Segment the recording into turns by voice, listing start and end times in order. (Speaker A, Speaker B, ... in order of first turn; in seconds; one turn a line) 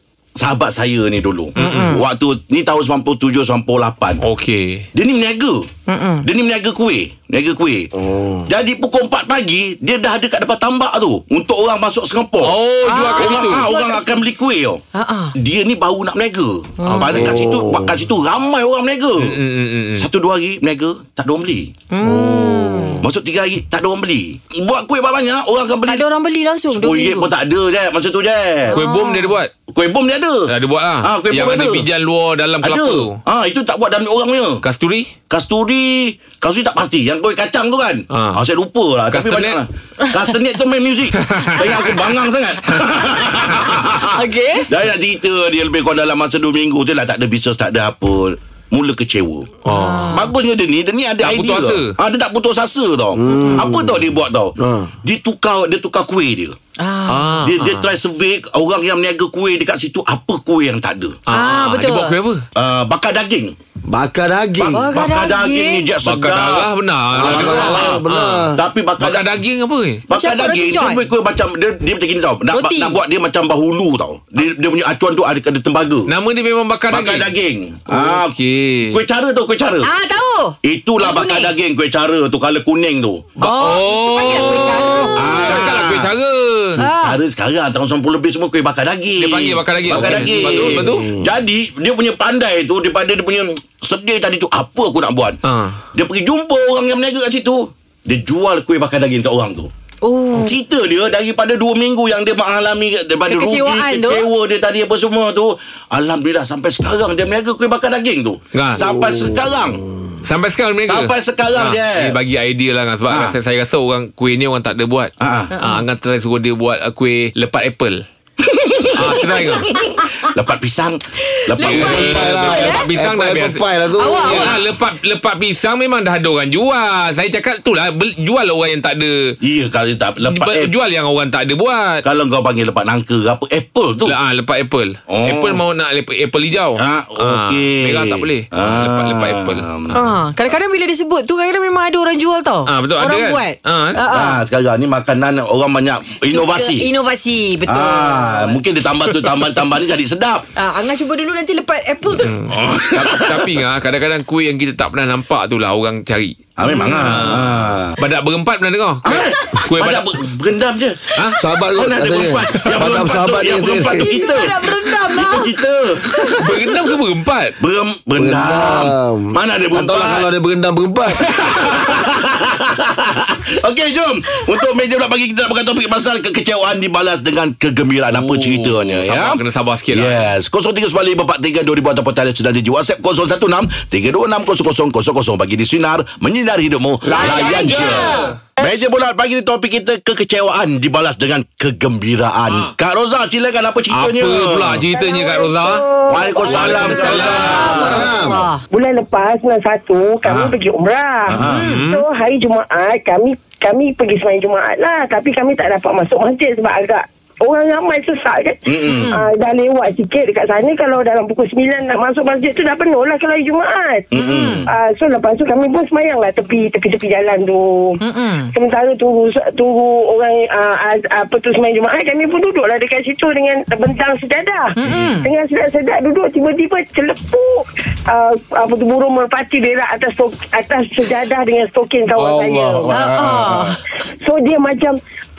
Speaker A: 0.4-4.2
Speaker B: 1.6-2.0
Speaker C: 1.6-2.0
Speaker B: 4.2-4.8
Speaker A: 5.0-5.7
Speaker C: 5.9-6.3
Speaker A: 6.2-7.9
Speaker D: 8.0-8.5
Speaker A: 8.5-14.8
Speaker B: 12.4-13.7
Speaker C: 12.8-14.2
Speaker C: 14.9-15.3
Speaker A: 15.4-19.4
Speaker C: 16.8-17.2
Speaker B: 17.1-17.4
Speaker D: 17.1-18.0
Speaker B: 19.2-20.1
Speaker A: 20.0-21.7
Speaker C: 21.9-23.1
Speaker D: 22.2-22.7
Speaker A: 23.0-26.1
Speaker C: 25.9-27.3
Speaker A: 26.7-28.8
Speaker C: 28.7-29.4
Speaker B: 28.7-29.5
Speaker A: 29.7-30.5
Speaker B: 30.5-33.2
Speaker A: 31.0-31.9
Speaker A: 32.6-34.6
Speaker B: 34.6-35.1
Speaker A: 35.3-56.6
Speaker B: 38.1-38.4
Speaker B: 39.1-39.6
Speaker C: 40.0-40.4
Speaker B: 41.2-42.0
Speaker C: 44.1-44.7
Speaker B: 49.6-50.2
Speaker C: 49.7-50.3
Speaker B: 51.2-52.0
Speaker D: 53.1-54.9
Speaker C: 56.8-57.4
Speaker B: 57.1-57.9
Speaker A: 57.4-61.2
Speaker B: 61.3-62.4
Speaker C: 61.3-62.2
Speaker A: 62.6-63.5
Speaker D: 63.9-64.9
Speaker A: 64.6-69.3
Speaker C: 64.7-65.9
Speaker B: 66.0-68.5
Speaker D: 67.1-68.6
Speaker B: 69.0-70.1
Speaker A: 70.1-76.1
Speaker C: 70.1-71.1
Speaker C: 72.5-73.0
Speaker B: 76.1-77.3
Speaker A: 76.9-78.4
Speaker B: 77.9-79.0
Speaker A: 78.9-79.9
Speaker C: 79.8-81.5
Speaker A: 80.6-83.4
Speaker C: 83.4-85.7
Speaker B: 83.4-86.8
Speaker A: 85.2-86.1
Speaker A: 86.7-95.4
Speaker C: 86.8-87.2
Speaker B: 89.2-91.0
Speaker D: 89.9-91.3
Speaker B: 95.4-95.8
Speaker A: 96.0-99.7
Speaker C: 100.0-100.5
Speaker A: 100.3-109.8
Speaker C: 103.2-104.2
Speaker B: 108.5-108.9
Speaker D: 108.8-110.1
Speaker B: 110.2-118.0
Speaker A: 110.9-112.2
Speaker A: 113.1-113.3
Speaker A: 115.2-115.6
Speaker C: 115.5-115.9
Speaker A: 118.5-119.4
Speaker B: 119.0-119.7
Speaker A: 120.2-122.6
Speaker C: 121.6-122.9
Speaker B: 121.6-123.7
Speaker D: 121.7-124.6
Speaker C: 124.0-124.6
Speaker B: 124.2-129.1
Speaker A: 129.4-130.7
Speaker B: 130.2-132.0
Speaker A: 132.0-134.2
Speaker B: 134.1-140.2
Speaker A: 135.1-135.6
Speaker A: 136.8-140.0
Speaker C: 139.9-144.4
Speaker B: 142.7-144.0
Speaker A: 144.1-146.9
Speaker C: 146.2-148.6
Speaker A: 147.7-150.5
Speaker B: 149.1-149.6
Speaker C: 150.6-152.4
Speaker B: 152.2-156.4
Speaker A: 152.5-153.6
Speaker A: 156.6-158.0
Speaker C: 156.7-157.1
Speaker B: 157.0-160.1
Speaker A: 159.1-161.1
Speaker D: 161.4-164.2
Speaker A: 161.7-166.3
Speaker B: 162.5-163.2
Speaker C: 164.0-165.6
Speaker B: 166.3-167.6
Speaker A: 167.6-170.3
Speaker D: 168.2-171.3
Speaker A: 171.2-194.9
Speaker B: 178.1-180.3
Speaker B: 187.2-188.3
Speaker E: 187.2-188.2
Speaker B: 192.5-192.7
Speaker B: 193.9-198.1
Speaker E: 194.9-197.7
Speaker A: 196.1-198.1
Speaker C: 196.7-198.6
Speaker D: 197.7-198.5
Speaker E: 198.7-214.1
Speaker A: 200.2-200.6
Speaker A: 201.3-201.8
Speaker B: 201.3-202.1
Speaker C: 201.4-201.9
Speaker A: 208.7-209.2
Speaker C: 208.8-209.3
Speaker A: 214.1-214.7
Speaker C: 214.1-214.7
Speaker E: 214.7-218.0
Speaker C: 218.0-218.5
Speaker E: 218.5-233.0
Speaker C: 224.8-225.3
Speaker A: 232.2-233.8
Speaker C: 232.9-233.8
Speaker E: 234.1-234.9